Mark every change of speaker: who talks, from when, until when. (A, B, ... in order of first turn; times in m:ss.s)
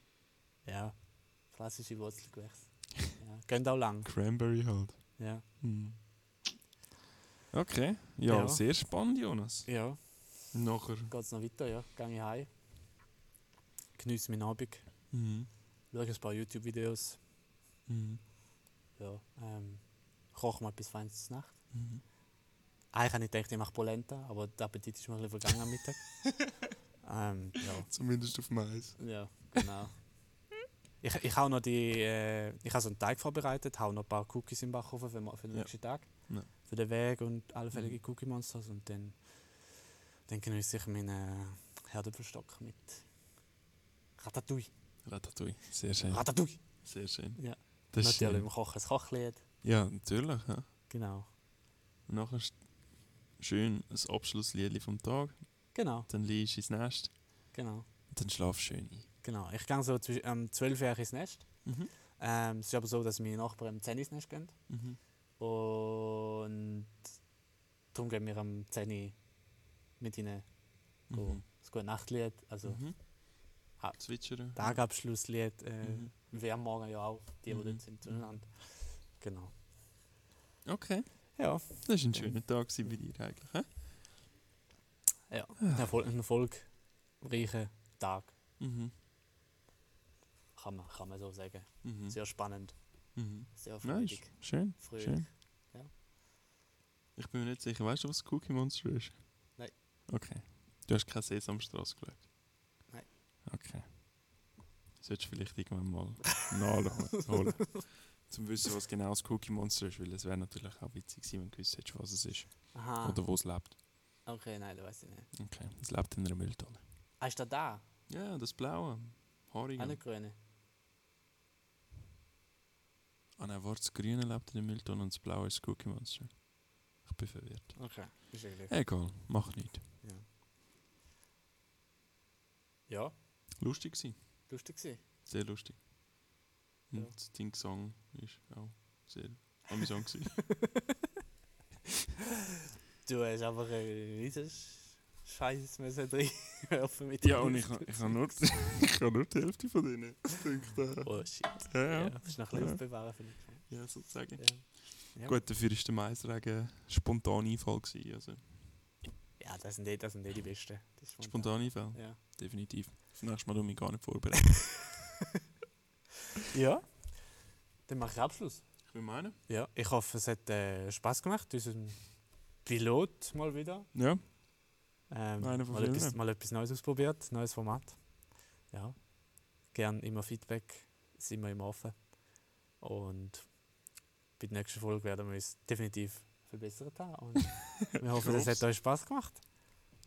0:00.6-0:04.1 A
0:04.0-0:06.0 B
0:05.2-0:05.4 A
0:07.5-0:09.7 B
0:08.3-0:08.6 A
0:09.7-0:10.5 A
0:10.5-0:11.1 B
0:11.1-0:12.5 A
0:14.0-0:14.9 A
0:15.1-0:15.5 B
0:15.9-0:17.2 A
0:17.9-0:18.2 B
0:19.0-0:21.6 A
0:21.7-0:22.0 B
0:22.9-0:27.9 A
0:27.8-0:29.0 B
0:29.0-0:30.0 A
0:31.0-0:39.2 A
0:35.5-0:36.5 B
0:40.3-0:43.1 A
0:44.2-0:44.7 A
0:45.0-0:48.5 B
0:46.1-0:46.8 A
0:47.3-0:49.4 A
0:49.6-0:50.6 B
0:50.9-0:51.3 A
0:52.1-0:52.7 B
0:53.3-0:57.1 B
0:55.7-0:56.1 A
0:57.5-0:57.8 A
0:58.1-0:59.1 B
0:59.2-1:01.6 A
1:01.6-1:01.9 B
1:02.2-1:04.6 A
1:04.7-1:05.0 B
1:05.4-1:07.0 A
1:07.9-1:09.2 A
1:10.0-1:10.5 A
1:11.1-1:11.4 B
1:11.1-1:12.8 A
1:12.6-1:13.0 B
1:14.0-1:14.8 B
1:14.5-1:19.5 A
1:15.8-1:16.1 B
1:17.5-1:18.2 B
1:20.6-1:23.7 B
1:21.4-1:22.4 A
1:25.3-1:28.3 A
1:25.6-1:25.9 B
1:28.6-1:28.9 B
1:30.5-1:32.7 A
1:31.8-1:32.2 B
1:33.1-1:35.3 B
1:33.5-1:35.9 A
1:37.2-1:39.5 B
1:40.1-1:42.3 B
1:43.4-1:43.9 B
1:45.0-1:53.8 B
1:52.7-1:53.2 A
1:54.2-1:55.3 A
1:55.3-1:56.8 B
1:57.2-1:57.8 A
1:58.1-2:00.0 B
1:59.8-2:00.3 A
2:03.4-2:06.4 B
2:07.0-2:08.2 B
2:07.8-2:08.7 A
2:08.7-2:09.9 B
2:10.0-2:10.2 A
2:12.9-2:13.1 A
2:13.6-2:14.3 B
2:14.5-2:15.0 A
2:15.2-2:15.8 B
2:16.9-2:20.5 B
2:20.5-2:20.8 A
2:23.0-2:28.7 A
2:27.2-2:32.8 B
2:31.0-2:35.4 A
2:33.7-2:38.5 B
2:39.4-2:42.2 A
2:41.2-2:44.8 B
2:46.5-2:47.1 A
2:47.9-2:48.7 A
2:48.9-2:49.4 B
2:49.5-2:52.1 A
2:52.6-2:53.9 A
2:53.9-2:54.2 B
2:55.1-2:58.1 A
2:55.4-2:56.2 B
2:58.7-2:59.1 A
2:59.7-3:02.1 A
3:02.8-3:03.5 A
3:04.4-3:09.4 A
3:08.2-3:08.6 B